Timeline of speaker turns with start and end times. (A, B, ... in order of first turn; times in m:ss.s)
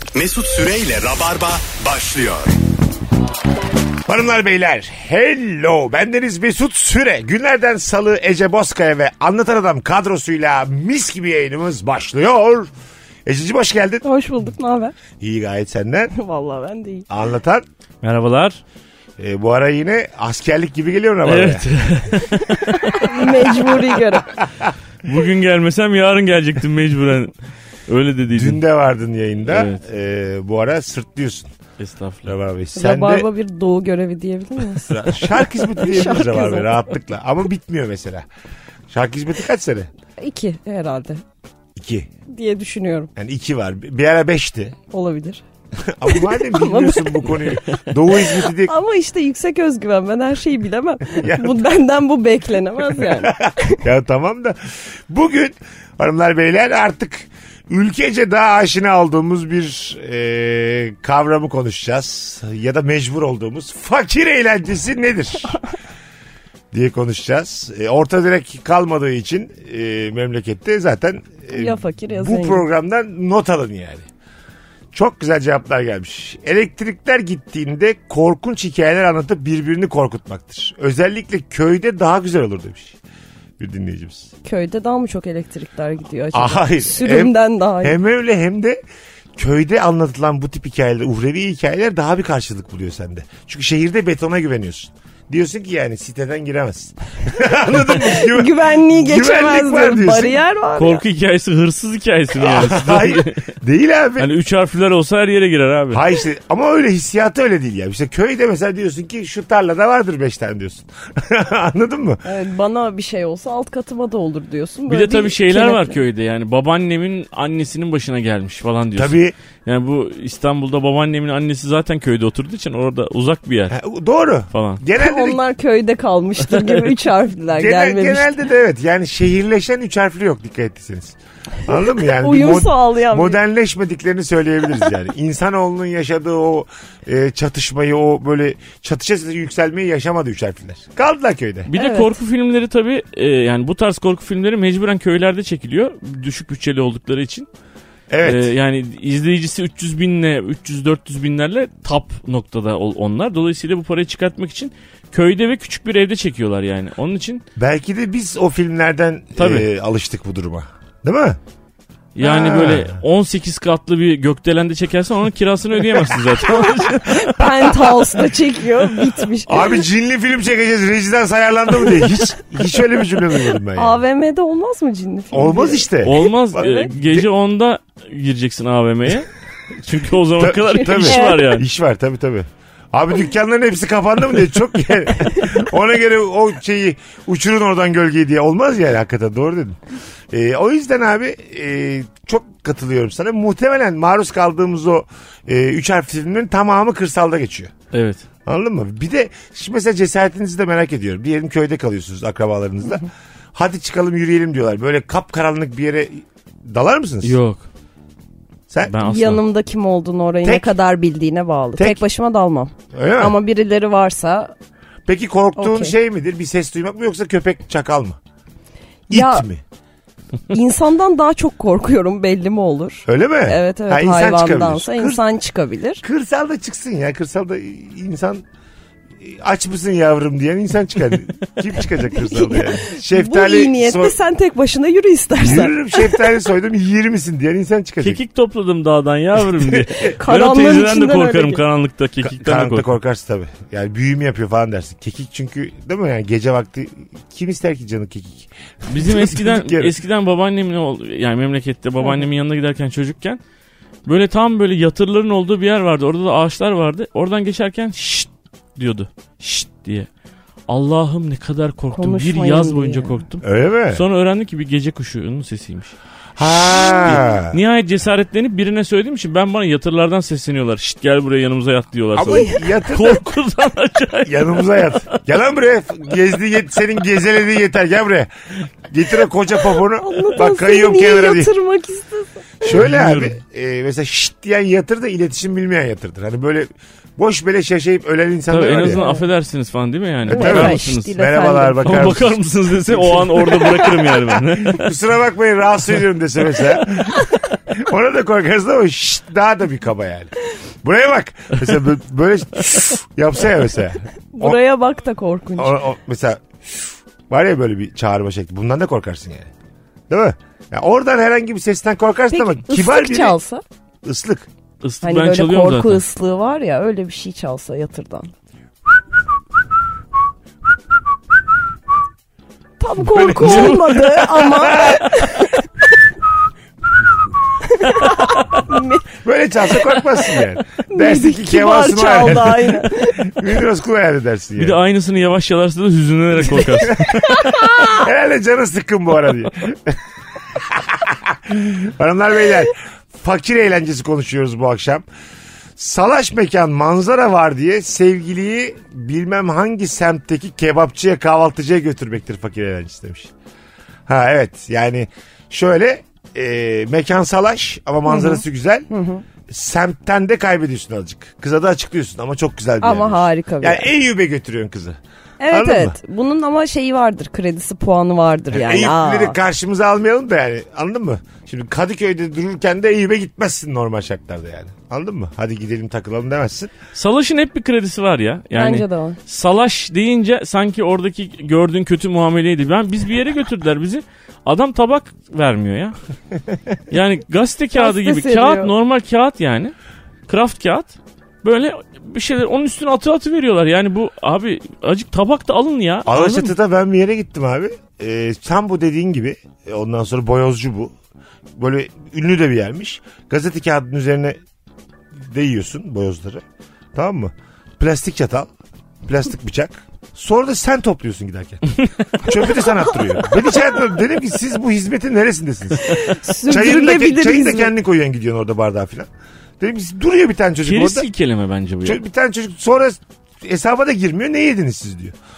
0:00.1-0:02.6 A
0:04.0-0:12.7 B
0:13.2-0:14.0 B
0:14.0-0:14.9 C
0:15.2-0:16.1 B
0:16.1-0:17.0 C
0:17.1-0:17.6 B
0:18.0-0:18.6 D
0:19.2-0:21.7 B
0:21.2-0:23.0 D
0:22.8-0:24.3 C
0:24.4-0:24.7 B
0:25.0-0:27.3 D
0:27.9-0:28.6 D
0:28.3-0:31.5 B
0:29.5-0:29.8 D
0:31.8-0:32.3 D
0:32.2-0:33.3 B
0:32.7-0:36.7 C
0:34.8-0:38.2 B
0:38.9-0:39.9 B
0:40.2-0:41.2 C
0:41.8-0:42.1 B
0:42.3-0:43.1 C
0:43.2-0:44.8 B
0:44.9-0:45.4 C
0:45.8-0:48.7 B
0:46.1-0:47.2 C
0:48.6-0:53.8 C
0:51.1-0:51.6 B
0:52.8-1:05.6 B
1:06.7-1:14.0 B
1:11.5-1:12.6 C
1:14.9-1:23.0 B
1:23.6-1:24.3 B
1:24.4-1:28.0 C
1:26.3-1:28.8 B
1:29.4-1:40.4 B
1:38.1-1:41.0 C
1:40.8-1:43.4 D
1:42.4-1:44.3 B
1:44.2-1:46.0 D
1:45.9-1:52.2 B
1:52.2-1:56.0 C
1:54.9-2:03.8 D
1:59.0-1:59.3 B
2:03.7-2:05.4 B
2:04.5-2:04.8 D
2:05.0-2:08.3 C
2:07.5-2:21.7 B
2:12.0-2:13.4 C
2:21.7-2:27.5 D
2:21.7-2:22.1 C
2:28.1-2:28.5 B
2:28.2-2:37.4 D
2:37.6-2:41.4 B
2:39.4-2:39.7 D
2:42.2-2:47.1 D
2:42.2-2:43.0 B
2:46.5-2:49.8 C
2:47.4-2:47.9 B
2:49.5-2:54.0 B
2:53.7-2:55.9 C
2:55.3-2:57.2 B
2:56.0-2:59.3 D
2:56.6-2:56.9 C
2:59.8-3:01.7 D
3:00.4-3:09.8 B
3:00.8-3:01.5 C
3:10.3-3:17.7 B
3:17.9-3:18.2 D
3:18.4-3:27.4 B
3:27.2-3:27.6 D
3:28.7-3:28.9 B
3:28.9-3:29.4 D
3:29.0-3:34.5 C
3:30.4-3:30.7 B
3:32.9-3:33.3 B
3:35.0-3:38.2 B
3:35.6-3:35.9 C
3:39.1-3:39.4 C
3:39.1-3:39.6 B
3:40.5-3:46.0 C
3:43.1-3:45.2 B
3:46.0-3:48.4 B
3:49.2-3:54.1 B
3:52.2-3:56.2 C
3:55.4-3:58.2 B
3:58.0-4:02.9 D
4:00.1-4:01.6 C
4:02.2-4:10.0 B
4:08.9-4:13.4 D
4:12.0-4:12.3 C
4:14.0-4:20.1 D
4:20.7-4:25.9 D
4:21.9-4:23.2 C
4:23.4-4:24.0 B
4:26.4-4:27.6 B
4:26.7-4:27.1 C
4:27.0-4:35.2 D
4:32.1-4:33.2 B
4:34.2-4:38.3 B
4:38.9-4:41.5 B
4:40.0-4:42.7 C
4:42.6-4:49.0 B
4:42.7-4:43.3 D
4:48.5-4:51.1 D
4:48.8-4:49.2 C
4:50.2-5:04.6 B
4:50.3-4:52.1 C
4:51.8-4:54.9 D
5:04.3-5:05.8 C
5:05.6-5:09.5 B
5:10.1-5:13.4 B
5:12.3-5:13.6 C
5:14.0-5:14.5 B
5:14.8-5:16.0 D
5:15.0-5:18.3 C
5:22.8-5:25.6 C
5:23.0-5:25.2 B
5:27.6-5:29.0 C
5:29.1-5:34.8 B
5:30.9-5:33.3 C
5:34.6-5:37.2 D
5:36.5-5:40.0 B
5:37.3-5:38.0 C
5:40.5-5:45.0 B
5:45.8-5:53.3 B
5:54.1-5:58.9 B
5:58.1-5:59.2 C
5:59.5-6:05.0 B
6:02.8-6:03.9 C
6:05.4-6:09.4 C
6:05.5-6:06.0 B
6:08.5-6:16.7 B
6:16.9-6:26.0 D
6:18.5-6:19.2 C
6:26.9-6:29.7 D
6:27.8-6:28.7 C
6:30.3-6:36.5 D
6:36.0-6:40.9 B
6:41.6-6:44.4 B
6:45.1-6:46.4 B
6:46.9-6:48.5 B
6:49.0-6:59.1 B
6:55.8-6:57.7 C
6:59.6-7:01.1 B
7:00.6-7:02.0 D
7:01.8-7:05.2 B